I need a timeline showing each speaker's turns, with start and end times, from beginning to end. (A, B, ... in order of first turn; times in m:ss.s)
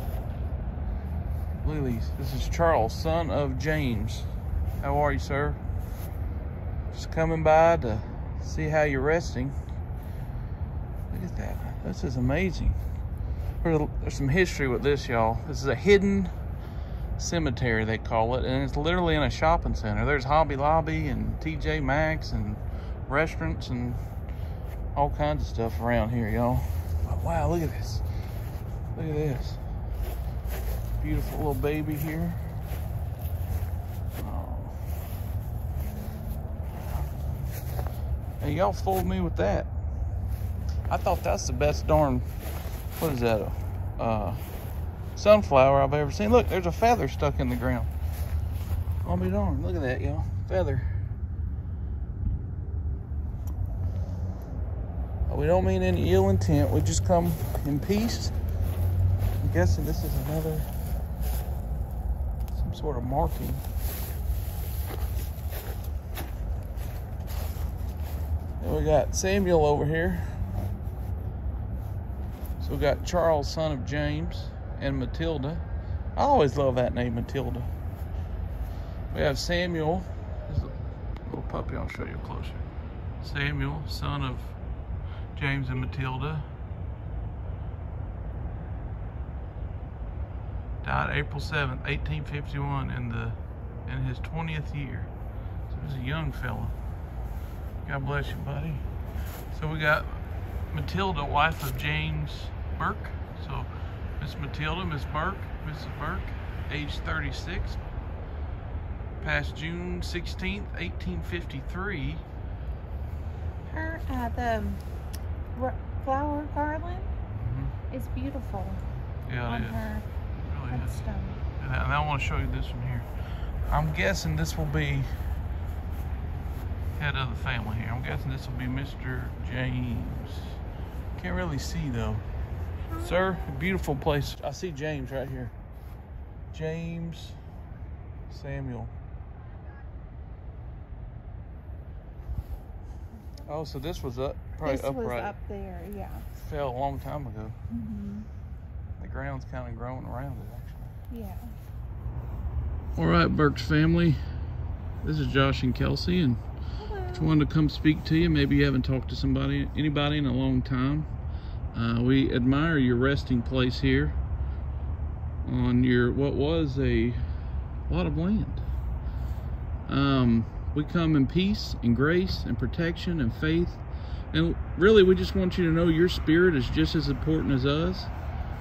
0:01.6-0:04.3 A
0:04.8-0:05.6 A
0:06.9-0:09.6 A
0:11.1-0:12.8 A
0:13.6-0:16.3 A
0:17.2-0:24.0 A
0:25.0-0:28.0 A
0:29.0-0:29.6 A
0:31.0-0:32.4 A
0:34.2-0:34.8 A
0:38.4-0:39.7 A
0:40.9-0:42.3 A
0:43.0-0:44.4 A
0:45.2-0:47.9 A
0:49.0-0:50.9 A
0:55.3-0:58.4 A
0:59.4-1:00.7 A
1:02.5-1:03.6 A
1:08.6-1:10.3 A
1:12.6-1:15.6 A
1:16.2-1:17.7 A
1:19.1-1:20.7 A
1:21.3-1:22.7 A
1:23.2-1:24.6 A
1:25.4-1:26.5 A
1:30.8-1:35.1 A
1:35.7-1:36.7 A
1:37.8-1:38.8 A
1:39.5-1:43.7 A
1:44.2-1:47.8 A
1:49.2-1:52.2 A
1:53.7-1:54.8 B
1:55.5-1:57.1 B
1:57.4-1:57.7 A
1:57.9-1:58.8 B
1:59.3-1:59.8 A
1:59.5-2:00.0 B
2:00.4-2:01.0 A
2:00.7-2:01.4 B
2:01.6-2:03.1 A
2:03.7-2:05.1 A
2:07.0-2:10.5 A
2:11.2-2:12.2 A
2:13.0-2:15.5 A
2:16.5-2:17.4 A
2:18.3-2:18.9 A
2:23.5-2:25.3 A
2:24.6-2:26.2 B
2:26.4-2:27.6 A
2:27.7-2:28.3 B
2:29.0-2:30.9 A
2:31.1-2:31.5 B
2:33.0-2:34.2 A
2:35.0-2:36.4 A
2:36.8-2:37.3 B
2:37.1-2:41.1 A
2:41.7-2:44.2 A
2:45.4-2:47.2 A
2:47.9-2:48.6 A
2:49.9-2:58.1 A